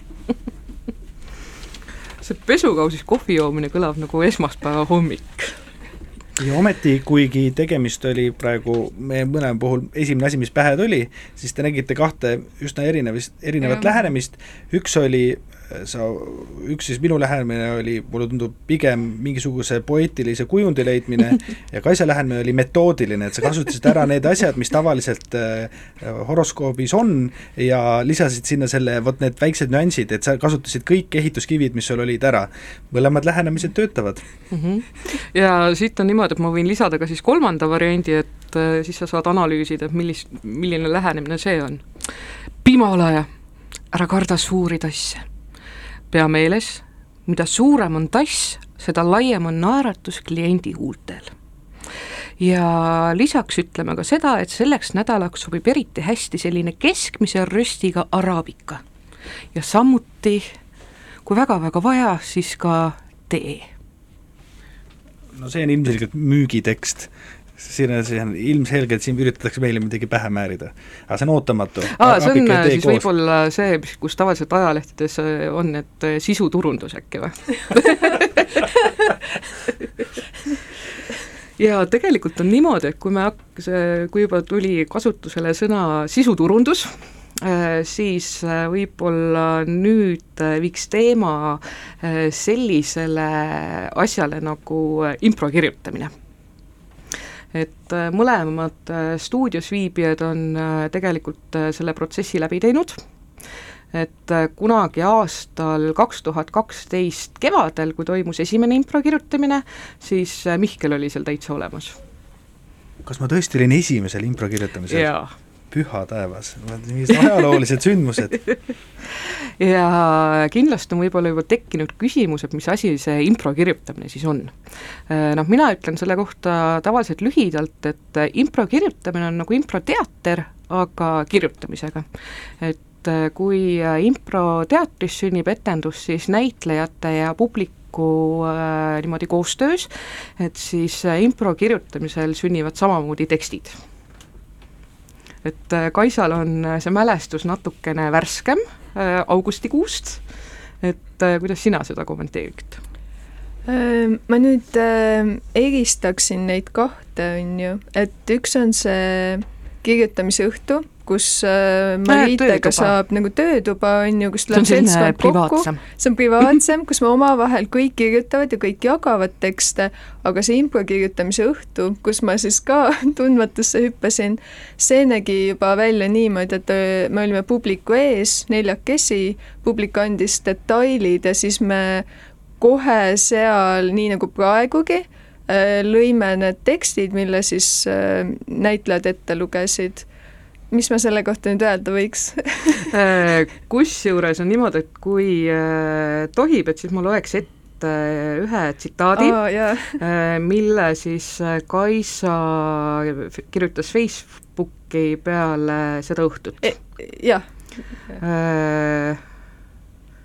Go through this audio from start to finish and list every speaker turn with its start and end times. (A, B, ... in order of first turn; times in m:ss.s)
0:02.2-0:05.6 A
0:06.4-0:34.2 B
0:34.5-0:42.1 A
0:42.6-0:43.3 A
0:43.9-0:45.3 A
0:46.1-0:51.3 A
0:52.4-0:58.8 A
0:59.5-1:00.5 A
1:01.2-1:03.7 A
1:05.3-1:13.1 B
1:11.9-1:18.7 A
1:21.6-1:36.1 A
1:37.5-1:43.0 A
1:43.9-1:52.0 A
1:53.0-1:55.1 B
1:54.9-1:55.3 A
1:55.7-1:58.4 B
1:59.1-2:04.6 A
2:05.1-2:12.0 A
2:12.6-2:23.8 A
2:25.4-2:30.2 A
2:30.8-2:32.8 A
2:33.6-3:02.0 C
2:42.1-2:42.9 A
2:44.5-2:45.8 A
3:02.6-3:10.0 C
3:10.7-3:12.9 C
3:12.9-3:19.4 A
3:19.2-3:20.0 C
3:19.9-3:26.8 A
3:26.6-3:27.4 C
3:28.2-3:29.2 A